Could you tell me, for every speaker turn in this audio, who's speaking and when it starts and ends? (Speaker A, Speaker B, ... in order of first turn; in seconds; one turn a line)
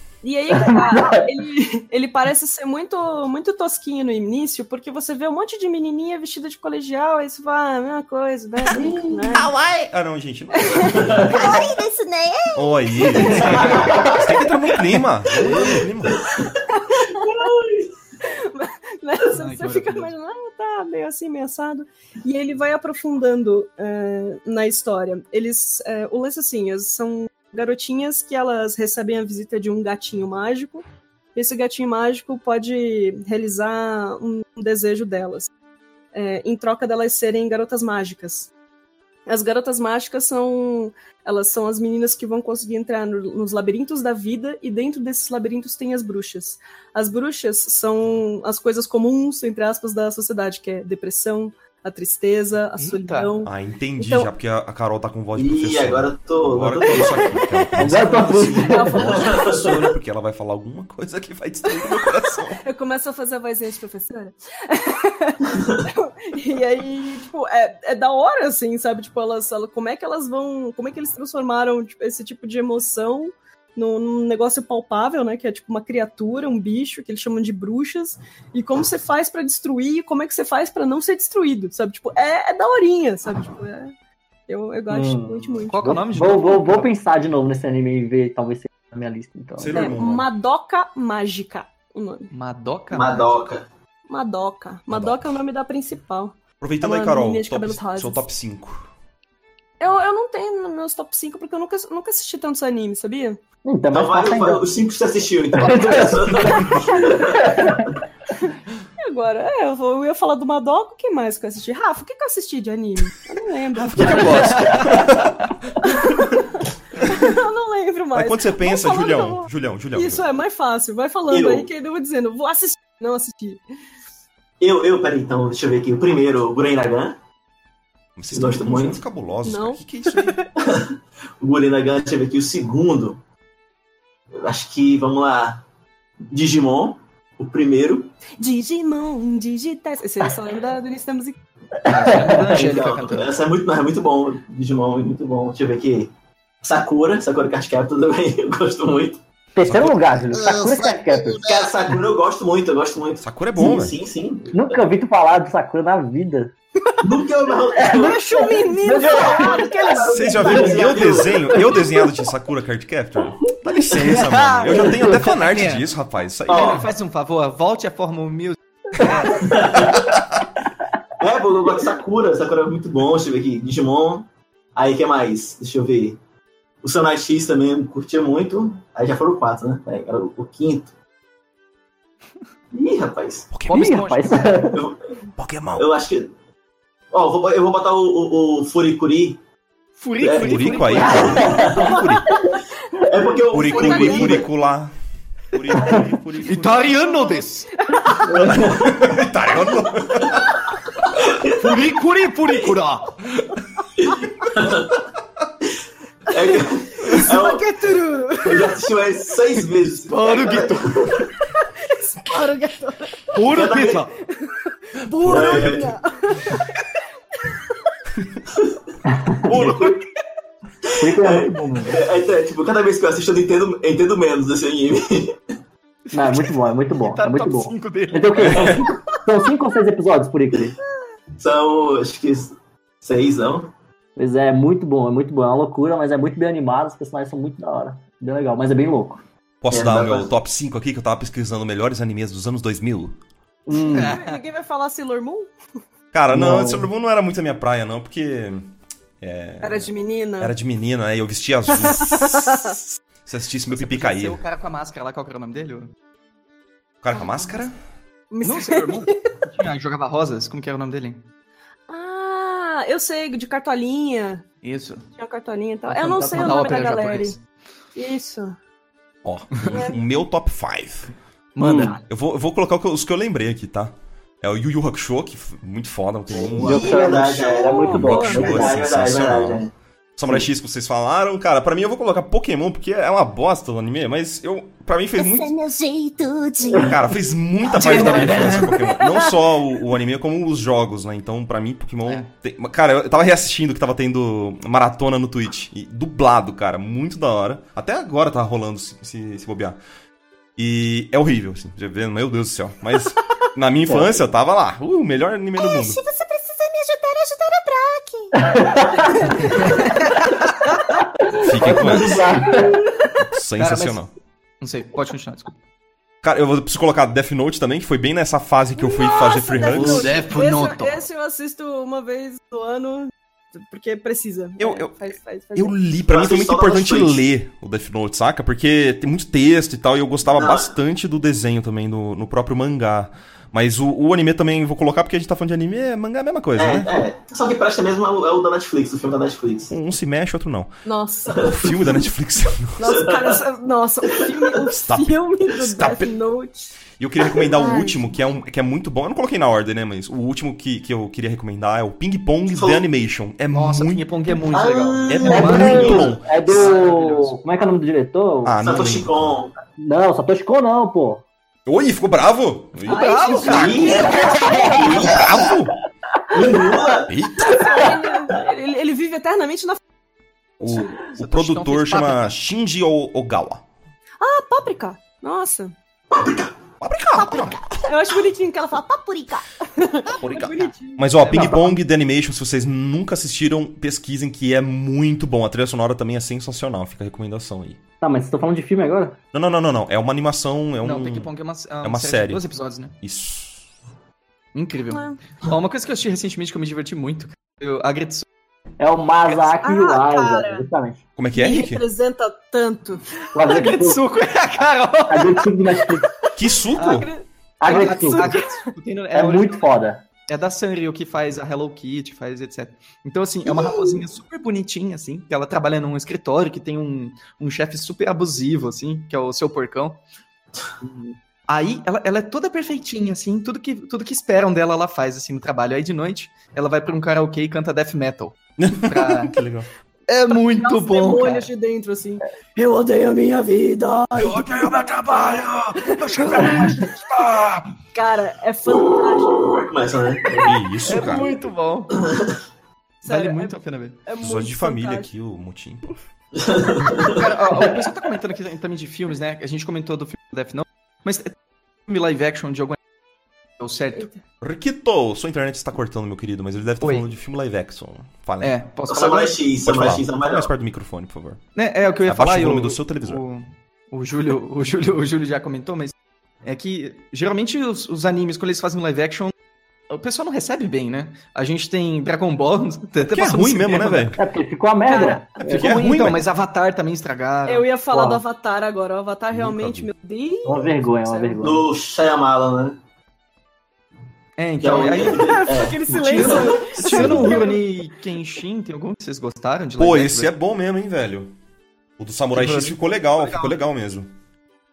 Speaker A: 0.2-9.5
Speaker B: 0.5-1.3
Speaker C: 9.3-11.5
Speaker A: 10.5-11.3
Speaker D: 11.2-13.3
Speaker C: 12.6-16.3
Speaker A: 13.2-13.6
Speaker E: 13.3-14.3
Speaker F: 13.3-13.7
Speaker E: 15.4-16.6
Speaker A: 16.7-17.5
Speaker E: 17.2-17.9
Speaker A: 18.2-30.8
Speaker F: 19.4-20.1
Speaker A: 31.4-35.5
Speaker A: 36.1-38.5
Speaker A: 39.3-54.3
Speaker F: 52.8-53.3
Speaker C: 53.4-62.6
Speaker E: 55.4-57.4
Speaker A: 56.9-59.8
Speaker B: 57.8-59.2
Speaker E: 59.2-59.8
Speaker A: 61.7-83.9
Speaker A: 84.5-86.0
Speaker B: 84.9-90.0
Speaker F: 85.7-86.9
Speaker C: 89.6-90.3
Speaker A: 89.7-92.3
Speaker F: 92.3-93.3
Speaker E: 92.9-93.7
Speaker A: 94.1-98.2
Speaker C: 94.9-95.4
Speaker C: 96.6-98.9
Speaker A: 99.8-103.4
Speaker B: 103.7-104.7
Speaker E: 103.9-107.7
Speaker B: 105.5-107.9
Speaker A: 106.5-107.8
Speaker A: 108.4-115.0
Speaker C: 113.8-115.3
Speaker F: 114.0-115.5
Speaker A: 115.8-123.6
Speaker C: 118.1-120.2
Speaker E: 121.3-121.7
Speaker E: 124.6-127.2
Speaker C: 128.2-130.4
Speaker E: 128.3-129.0
Speaker A: 129.4-130.4
Speaker E: 130.6-133.2
Speaker E: 134.3-135.6
Speaker E: 136.2-138.1
Speaker A: 138.4-141.4
Speaker F: 141.9-143.4
Speaker B: 141.9-142.6
Speaker E: 142.2-146.1
Speaker E: 146.6-149.2
Speaker B: 149.6-151.5
Speaker C: 149.6-150.5
Speaker E: 151.4-154.7
Speaker C: 153.2-154.0
Speaker B: 154.5-156.5
Speaker E: 157.0-158.4
Speaker B: 157.8-159.7
Speaker A: 157.8-160.7
Speaker E: 158.9-161.9
Speaker C: 160.1-166.9
Speaker F: 164.0-165.9
Speaker A: 164.1-164.9
Speaker E: 166.5-166.9
Speaker F: 166.5-169.7
Speaker E: 169.3-170.2
Speaker C: 169.8-170.5
Speaker E: 171.2-176.2
Speaker E: 176.8-180.9
Speaker E: 182.7-183.5
Speaker C: 183.5-184.0
Speaker F: 183.7-184.5
Speaker B: 183.7-184.9
Speaker E: 184.7-185.1
Speaker C: 185.4-185.8
Speaker E: 185.8-186.3
Speaker E: 187.1-189.4
Speaker F: 190.0-191.6
Speaker E: 190.2-192.4
Speaker C: 190.4-192.3
Speaker A: 191.7-192.6
Speaker E: 193.0-194.5
Speaker C: 193.5-194.9
Speaker A: 193.7-194.5
Speaker C: 195.5-197.1
Speaker F: 196.4-197.7
Speaker A: 196.9-198.4
Speaker E: 198.3-199.2
Speaker B: 198.4-198.8
Speaker C: 198.5-200.5
Speaker E: 201.2-201.8
Speaker F: 201.4-203.2
Speaker E: 204.0-205.1
Speaker E: 206.3-207.7
Speaker A: 206.4-208.7
Speaker E: 208.4-211.3
Speaker F: 210.0-211.0
Speaker A: 211.4-213.3
Speaker F: 213.3-214.1
Speaker E: 213.5-214.1
Speaker A: 214.4-216.7
Speaker C: 215.1-215.8
Speaker E: 215.3-215.9
Speaker B: 219.1-219.7
Speaker F: 219.4-220.0
Speaker E: 219.5-220.0
Speaker E: 220.9-225.4
Speaker B: 221.0-222.0
Speaker F: 226.1-228.8
Speaker B: 226.1-230.8
Speaker C: 228.5-228.9
Speaker E: 231.4-233.7
Speaker B: 234.2-239.2
Speaker C: 239.6-243.2
Speaker E: 239.7-240.3
Speaker B: 243.7-244.2
Speaker A: 243.8-245.5
Speaker F: 243.9-244.4
Speaker C: 246.1-248.7
Speaker B: 246.3-246.9
Speaker C: 249.2-252.7
Speaker A: 249.6-250.5
Speaker A: 251.7-252.9
Speaker C: 253.3-254.4
Speaker F: 253.7-255.9
Speaker C: 257.0-257.8
Speaker A: 258.3-259.4
Speaker F: 258.4-261.3
Speaker A: 261.9-264.5
Speaker F: 264.6-265.1
Speaker A: 265.1-267.3
Speaker F: 265.9-267.4
Speaker A: 267.9-268.6
Speaker C: 269.2-271.1
Speaker A: 269.6-270.2
Speaker F: 271.6-272.0
Speaker B: 271.6-271.9
Speaker C: 272.1-277.0
Speaker E: 276.3-279.7
Speaker B: 276.6-278.9
Speaker A: 276.9-278.4
Speaker C: 277.8-285.6
Speaker D: 285.2-287.0
Speaker C: 286.7-299.8
Speaker F: 287.6-288.8
Speaker A: 288.8-289.5
Speaker C: 300.6-306.0
Speaker B: 303.9-304.2
Speaker D: 305.6-308.7
Speaker B: 308.4-309.1
Speaker A: 309.1-309.5
Speaker F: 309.3-310.8
Speaker B: 311.2-312.8
Speaker C: 311.4-312.3
Speaker A: 312.4-313.2
Speaker C: 313.2-314.1
Speaker F: 313.6-314.1
Speaker F: 314.6-315.5
Speaker C: 316.2-320.2
Speaker A: 318.8-325.8
Speaker F: 319.7-321.0
Speaker C: 324.6-336.9
Speaker E: 326.1-327.2
Speaker E: 330.3-330.7
Speaker E: 336.6-339.7
Speaker C: 339.7-342.9
Speaker A: 340.9-341.5
Speaker A: 342.8-346.8
Speaker E: 342.9-343.4
Speaker C: 344.9-346.1
Speaker C: 347.0-354.1
Speaker A: 347.4-348.0
Speaker E: 352.5-352.8
Speaker F: 353.5-357.4
Speaker E: 354.5-356.2
Speaker C: 355.1-356.7
Speaker B: 355.3-358.6
Speaker C: 358.4-359.4
Speaker E: 358.6-359.5
Speaker B: 359.8-361.2
Speaker C: 361.7-364.1
Speaker F: 362.8-364.0
Speaker A: 362.9-365.3
Speaker E: 363.4-365.6
Speaker B: 364.2-365.0
Speaker C: 364.7-365.8
Speaker E: 366.3-367.2
Speaker C: 367.1-367.8
Speaker A: 367.4-369.8
Speaker A: 370.6-370.9
Speaker C: 370.6-373.6
Speaker F: 371.0-372.3
Speaker A: 374.2-375.8
Speaker E: 376.1-376.5
Speaker C: 376.8-377.9
Speaker A: 377.2-381.6
Speaker C: 380.2-387.8
Speaker F: 381.2-381.6
Speaker B: 388.0-389.2
Speaker C: 389.3-391.3
Speaker F: 390.8-393.0
Speaker C: 391.8-392.5
Speaker C: 393.0-393.7
Speaker F: 394.5-398.3
Speaker A: 394.9-395.2
Speaker B: 398.8-401.0
Speaker A: 399.4-400.7
Speaker C: 401.2-401.8
Speaker A: 401.3-403.0
Speaker B: 403.4-404.0
Speaker F: 403.4-405.8
Speaker B: 405.1-406.1
Speaker C: 406.4-407.1
Speaker F: 406.8-407.1
Speaker A: 406.8-408.7
Speaker B: 407.6-408.3
Speaker F: 407.6-409.7
Speaker B: 409.1-410.0
Speaker F: 410.3-420.0
Speaker F: 420.8-429.4
Speaker C: 428.6-429.7
Speaker F: 430.1-431.5
Speaker A: 430.3-432.2
Speaker F: 432.6-437.8
Speaker A: 434.2-434.8
Speaker A: 437.9-439.6
Speaker E: 439.4-440.6
Speaker C: 440.4-441.3
Speaker F: 440.9-442.0
Speaker E: 442.0-442.4
Speaker A: 443.0-443.6
Speaker F: 443.1-444.0
Speaker A: 444.1-445.1
Speaker C: 444.2-445.9
Speaker E: 446.4-447.2
Speaker F: 447.0-451.4
Speaker F: 451.9-452.8
Speaker F: 453.6-454.1
Speaker C: 454.4-458.5
Speaker F: 458.4-459.5
Speaker E: 458.9-460.5
Speaker C: 459.6-461.4
Speaker F: 461.6-469.3
Speaker C: 462.1-463.2
Speaker F: 469.9-474.2
Speaker C: 473.1-474.2
Speaker B: 474.2-475.6
Speaker A: 474.9-475.2
Speaker F: 474.9-477.7
Speaker C: 475.4-476.2
Speaker A: 477.5-481.4
Speaker B: 477.9-478.2
Speaker C: 479.3-479.9
Speaker B: 480.4-481.6
Speaker E: 481.4-482.8
Speaker F: 484.4-490.3
Speaker E: 484.6-485.8
Speaker A: 485.0-487.6
Speaker C: 489.8-491.3
Speaker C: 492.0-494.1
Speaker F: 492.3-493.6